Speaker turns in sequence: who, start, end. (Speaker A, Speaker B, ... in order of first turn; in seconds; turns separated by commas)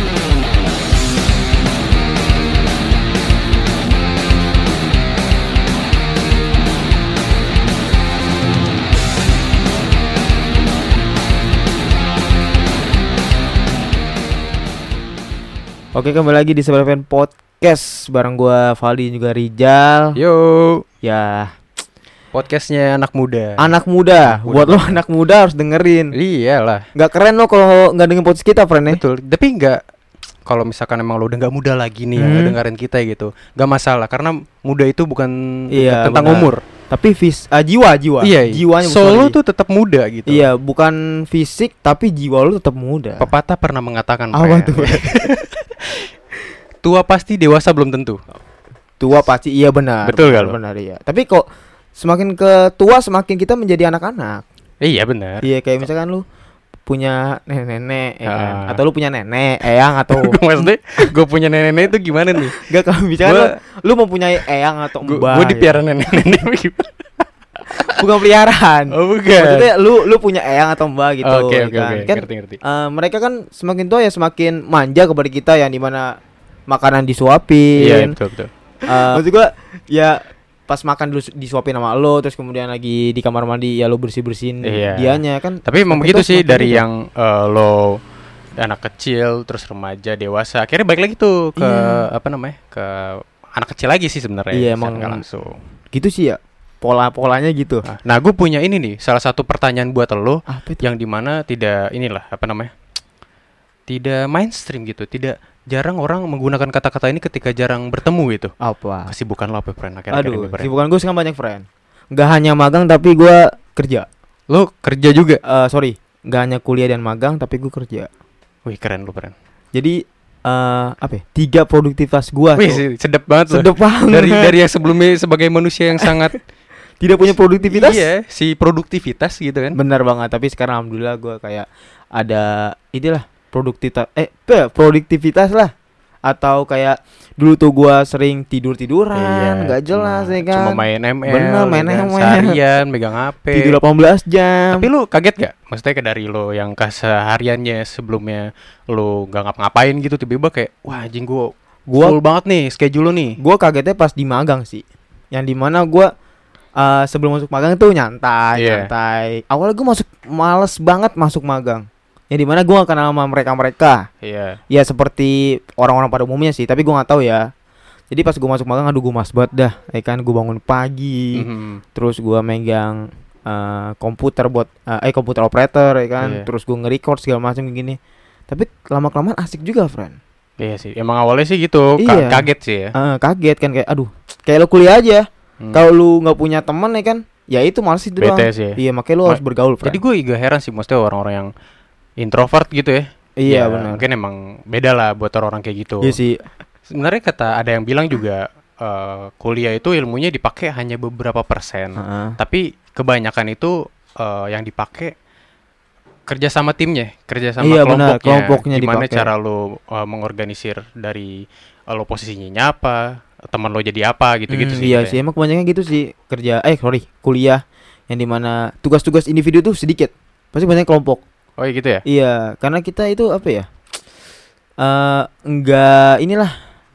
Speaker A: 15.9-20.2, Speaker B: 20.2-20.8, Speaker A: 21.0-21.5, Speaker B: 22.3-23.7, Speaker A: 23.6-26.1, Speaker B: 24.2-25.0, Speaker B: 26.1-26.8, Speaker A: 26.9-29.0, Speaker B: 28.9-29.8, Speaker B: 30.5-36.6, Speaker A: 32.2-32.6, Speaker A: 35.7-39.4, Speaker B: 38.2-40.5, Speaker A: 40.3-43.3, Speaker B: 43.2-46.1, Speaker A: 44.3-45.3, Speaker B: 46.8-48.2, Speaker A: 49.0-51.5, Speaker B: 50.0-50.6, Speaker A: 52.0-54.5, Speaker B: 54.8-55.5, Speaker A: 55.4-56.2, Speaker A: 56.9-61.1, Speaker B: 58.3-58.8, Speaker B: 60.1-62.6, Speaker A: 62.6-65.8, Speaker B: 63.2-63.5, Speaker B: 65.0-66.9, Speaker A: 67.9-76.2, Speaker B: 68.9-69.7, Speaker B: 71.2-72.6, Speaker A: 76.7-78.1, Speaker B: 77.8-79.2, Speaker A: 78.9-86.8, Speaker B: 84.6-88.0, Speaker B: 88.6-95.6, Speaker A: 91.6-92.0, Speaker A: 94.5-95.2, Speaker A: 95.9-97.9, Speaker B: 97.9-102.7, Speaker A: 100.5-100.8, Speaker B: 103.9-108.5, Speaker A: 108.6-109.1, Speaker B: 109.1-110.7, Speaker A: 110.1-114.1, Speaker B: 114.5-115.4, Speaker A: 115.5-118.1, Speaker B: 118.7-119.3, Speaker A: 120.5-122.8, Speaker B: 122.6-126.4, Speaker A: 123.5-124.5, Speaker A: 127.0-128.1, Speaker B: 127.7-129.8, Speaker A: 129.8-135.7, Speaker A: 136.3-142.6, Speaker B: 139.1-143.8, Speaker A: 143.5-144.9, Speaker B: 144.7-153.4, Speaker A: 151.9-152.2, Speaker A: 153.4-156.1, Speaker A: 156.8-164.0, Speaker B: 158.6-158.9, Speaker B: 164.2-164.6, Speaker A: 164.7-167.4, Speaker A: 168.1-178.0, Speaker B: 171.4-171.8, Speaker B: 176.2-176.5, Speaker A: 178.5-180.2, Speaker B: 180.6-182.9, Speaker A: 182.0-190.0, Speaker B: 188.2-191.5, Speaker B: 192.2-196.2, Speaker A: 193.4-194.0, Speaker A: 196.0-196.5, Speaker B: 196.9-205.1, Speaker A: 202.0-202.4, Speaker B: 206.3-211.3, Speaker A: 207.6-209.3, Speaker B: 211.9-215.2, Speaker A: 214.5-221.2, Speaker B: 221.6-222.0, Speaker A: 222.1-223.7, Speaker A: 224.8-226.5